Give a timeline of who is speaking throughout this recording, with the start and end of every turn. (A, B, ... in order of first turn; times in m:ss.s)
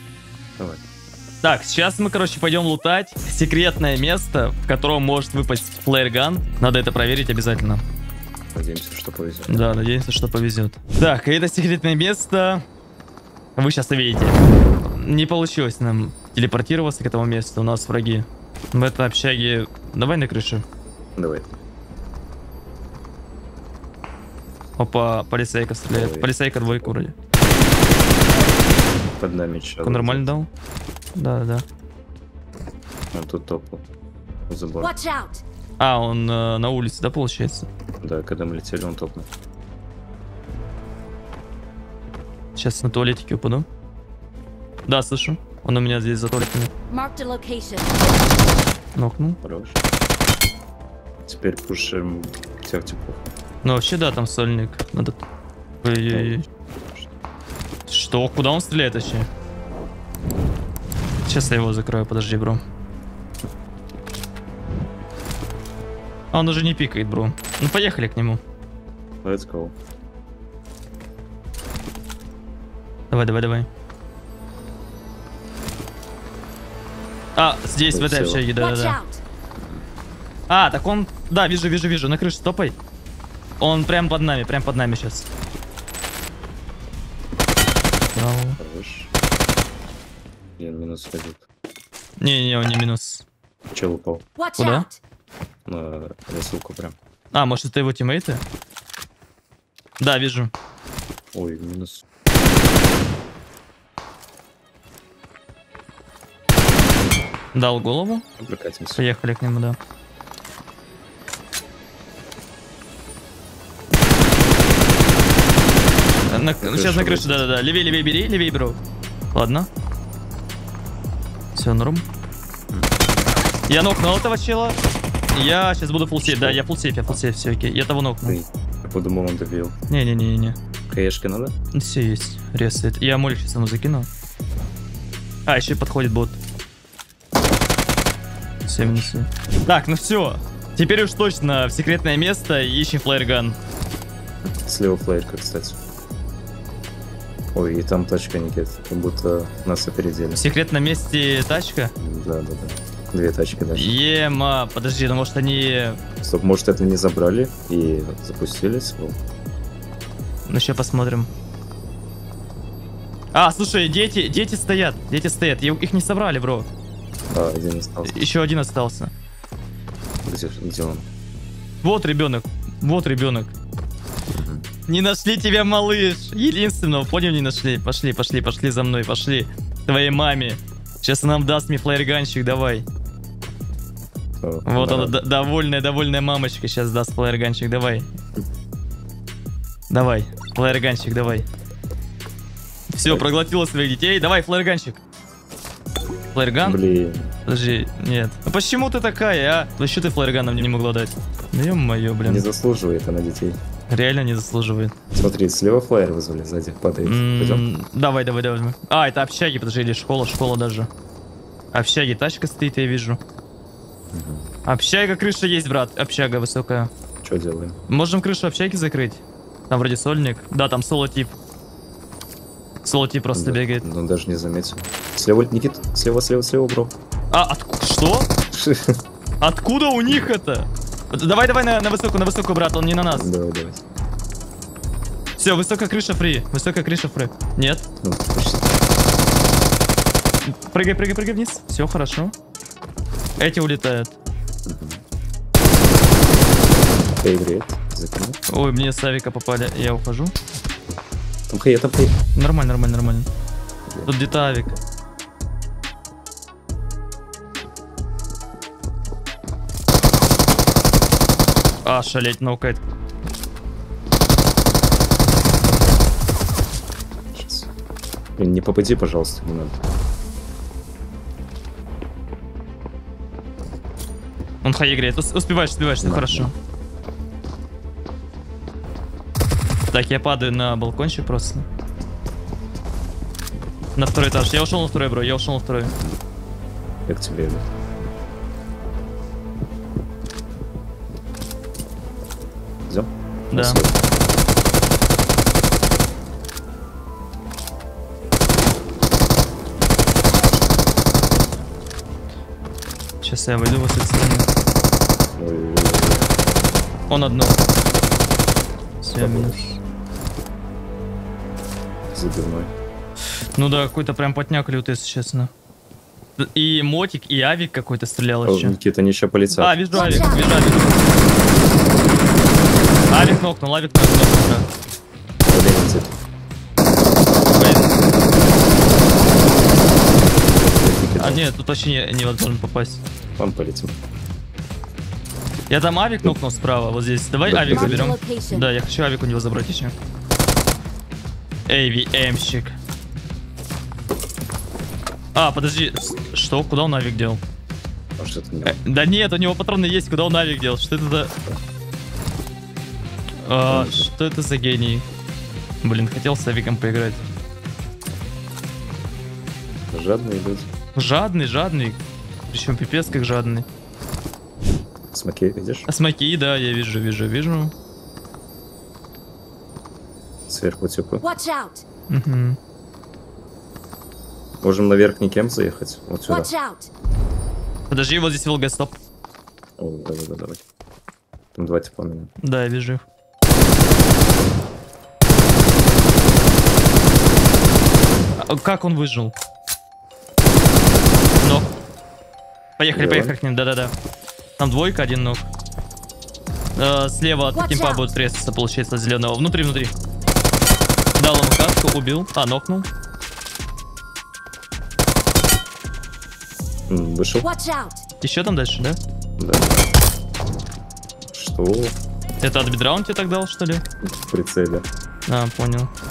0:01.4-0:07.8 A
0:08.5-0:09.8 B
0:09.5-0:12.6 A
0:13.6-0:14.4 A
0:14.9-0:20.6 A
0:21.2-0:21.5 B
0:24.8-0:27.2 A
0:25.9-0:27.0 B
0:29.2-0:30.4 B
0:29.8-0:30.5 A
0:31.2-0:31.6 A
0:33.1-0:33.8 B
0:34.5-0:34.9 B
0:34.8-0:35.4 C
0:35.8-0:37.7 A
0:38.0-0:39.3 B
0:42.6-0:43.7 A
0:44.9-0:46.7 A
0:46.9-0:48.0 C
0:49.0-0:49.4 A
0:49.4-0:49.8 B
0:51.3-0:53.2 B
0:53.6-0:55.2 A
0:55.8-0:56.4 A
0:56.1-0:57.1 B
0:57.9-0:59.3 A
1:01.3-1:02.6 A
1:06.3-1:08.4 A
1:09.2-1:09.8 B
1:13.1-1:13.7 A
1:17.4-1:19.0 A
1:17.9-1:18.5 B
1:18.6-1:19.2 C
1:19.6-1:19.9 B
1:20.5-1:22.8 A
1:23.6-1:25.3 A
1:28.1-1:28.6 A
1:28.6-1:29.1 B
1:30.6-1:31.4 B
1:32.2-1:33.2 A
1:33.7-1:34.2 B
1:34.4-1:35.0 C
1:34.6-1:34.9 A
1:35.7-1:37.0 B
1:37.3-1:38.4 A
1:40.0-1:40.5 A
1:41.3-1:42.0 B
1:47.5-1:48.2 A
1:48.4-1:49.0 B
1:49.0-1:49.8 A
1:56.3-1:58.8 A
1:56.6-1:57.5 B
1:59.3-1:59.7 A
2:01.6-2:02.0 A
2:03.7-2:04.8 A
2:05.3-2:08.4 A
2:06.2-2:06.6 B
2:08.2-2:09.8 B
2:09.9-2:10.6 A
2:10.9-2:11.5 B
2:11.7-2:14.1 A
2:15.5-2:16.4 A
2:18.7-2:23.6 A
2:18.8-2:19.2 B
2:24.4-2:25.8 B
2:27.5-2:30.4 B
2:30.4-2:31.9 A
2:32.0-2:34.0 B
2:33.7-2:36.0 A
2:36.2-2:39.2 B
2:40.5-2:41.3 A
2:43.3-2:46.7 A
2:47.3-2:48.3 B
2:48.0-2:49.1 A
2:50.2-2:51.1 B
2:51.8-2:53.5 A
2:54.3-2:54.7 B
2:54.9-3:02.9 A
3:04.4-3:05.2 B
3:04.7-3:08.1 A
3:09.9-3:11.5 A
3:12.9-3:15.0 A
3:16.3-3:16.8 A
3:16.6-3:17.3 B
3:17.5-3:22.5 A
3:22.2-3:23.6 B
3:23.9-3:25.0 A
3:25.1-3:27.6 B
3:27.0-3:30.9 A
3:31.7-3:33.2 A
3:34.1-3:34.5 B
3:34.7-3:36.9 A
3:37.2-3:37.8 B
3:37.9-3:41.3 A
3:42.8-3:43.8 A
3:43.3-3:46.9 B
3:47.3-3:48.3 A
3:48.5-3:49.0 B
3:49.4-3:53.3 A
3:53.1-3:53.8 B
3:55.4-3:57.9 A
3:58.0-3:58.7 B
4:00.4-4:02.3 A
4:03.4-4:04.2 A
4:04.7-4:05.0 B
4:07.2-4:08.4 B
4:08.5-4:10.3 A
4:11.5-4:12.2 B
4:12.4-4:13.3 A
4:14.1-4:14.8 A
4:21.8-4:22.8 A
4:27.3-4:27.7 B
4:28.4-4:29.9 B
4:34.6-4:36.5 A
4:36.0-4:36.5 B
4:39.9-4:41.7 A
4:44.0-4:46.0 A
4:45.9-4:46.2 B
4:47.1-4:47.6 B
4:52.9-4:54.0 B
4:53.5-4:53.8 A
5:03.2-5:04.5 A
5:05.4-5:06.3 B
5:07.1-5:07.6 A
5:09.0-5:09.6 A
5:09.2-5:09.8 B
5:12.1-5:12.7 B
5:13.6-5:15.5 A
5:16.4-5:18.8 A
5:18.4-5:20.4 B
5:19.6-5:21.0 A
5:20.0-5:20.4 C
5:23.1-5:24.7 A
5:25.5-5:26.2 B
5:27.5-5:27.9 A
5:30.4-5:31.4 B
5:31.2-5:33.0 A
5:33.4-5:34.0 B
5:35.7-5:39.9 A
5:37.4-5:38.1 B
5:37.6-5:38.7 C
5:41.7-5:42.8 A
5:45.4-5:47.4 A
5:48.2-5:48.8 B
5:48.6-5:51.3 A
5:53.4-5:55.0 A
5:53.7-5:54.1 B
5:55.8-5:57.2 A
5:59.9-6:00.7 B
6:01.0-6:03.7 A
6:05.1-6:05.9 B
6:05.9-6:07.7 A
6:10.5-6:11.2 B
6:11.2-6:11.8 C
6:12.1-6:12.6 A
6:14.6-6:16.5 B
6:16.3-6:16.9 C
6:17.9-6:18.9 A
6:19.8-6:20.6 B
6:21.6-6:22.3 B
6:22.4-6:23.0 A
6:28.4-6:29.4 A
6:31.4-6:31.7 A
6:32.8-6:33.9 A
6:32.9-6:33.4 B
6:34.6-6:35.5 A
6:36.8-6:39.9 A
6:37.6-6:38.1 C
6:41.2-6:42.9 A
6:46.9-6:47.5 B
6:47.4-6:48.0 C
6:48.2-6:49.0 A
6:49.4-6:49.9 B
6:51.3-6:52.0 B
6:52.4-6:53.8 A
6:54.0-6:54.9 B
6:55.3-6:55.9 A